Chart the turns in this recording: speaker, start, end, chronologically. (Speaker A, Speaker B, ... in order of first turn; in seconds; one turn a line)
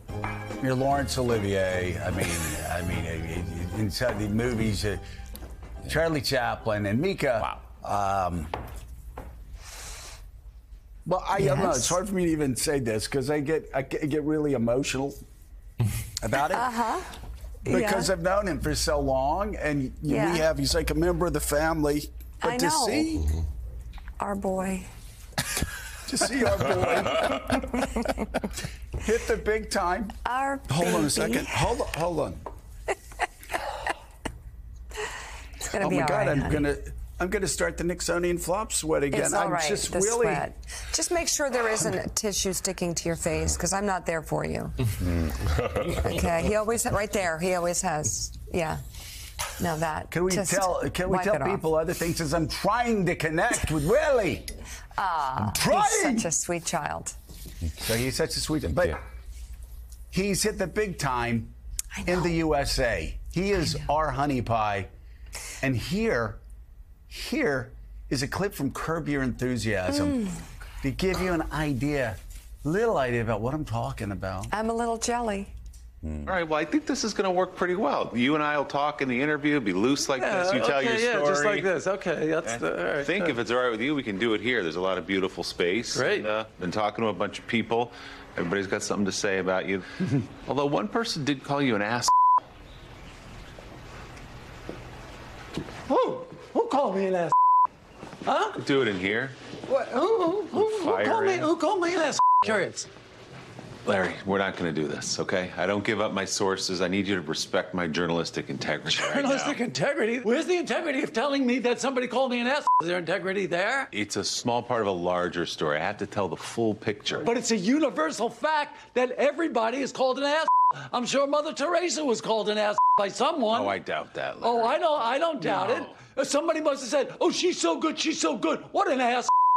Speaker A: 0.6-5.0
Speaker A: 5.8-8.5
Speaker A: 11.0-15.2
Speaker B: 11.4-11.9
Speaker A: 16.2-16.9
Speaker B: 16.5-17.1
Speaker A: 17.6-23.4
Speaker B: 17.7-18.1
Speaker B: 20.1-20.5
Speaker B: 22.4-23.2
Speaker B: 24.2-24.9
Speaker A: 26.0-27.9
Speaker B: 27.7-28.2
Speaker A: 28.9-32.4
Speaker B: 30.2-31.6
Speaker B: 35.6-36.6
Speaker A: 35.8-40.5
Speaker B: 39.1-45.0
Speaker B: 45.7-48.8
Speaker B: 49.5-51.6
Speaker A: 50.1-54.5
Speaker B: 55.0-57.1
Speaker A: 55.4-56.3
Speaker A: 57.8-59.0
Speaker A: 60.1-64.9
Speaker A: 65.6-66.4
Speaker A: 67.1-74.5
Speaker B: 74.5-75.5
Speaker C: 76.0-81.7
Speaker D: 80.2-83.3
Speaker C: 82.4-92.1
Speaker D: 85.9-86.3
Speaker D: 95.9-97.3
Speaker D: 98.2-98.6
Speaker C: 98.5-99.4
Speaker D: 99.7-102.9
Speaker C: 100.5-101.5
Speaker C: 103.8-109.6
Speaker D: 108.8-113.9
Speaker C: 113.9-117.3
Speaker D: 117.2-123.8
Speaker C: 123.5-124.9
Speaker D: 124.4-129.3
Speaker C: 125.4-125.9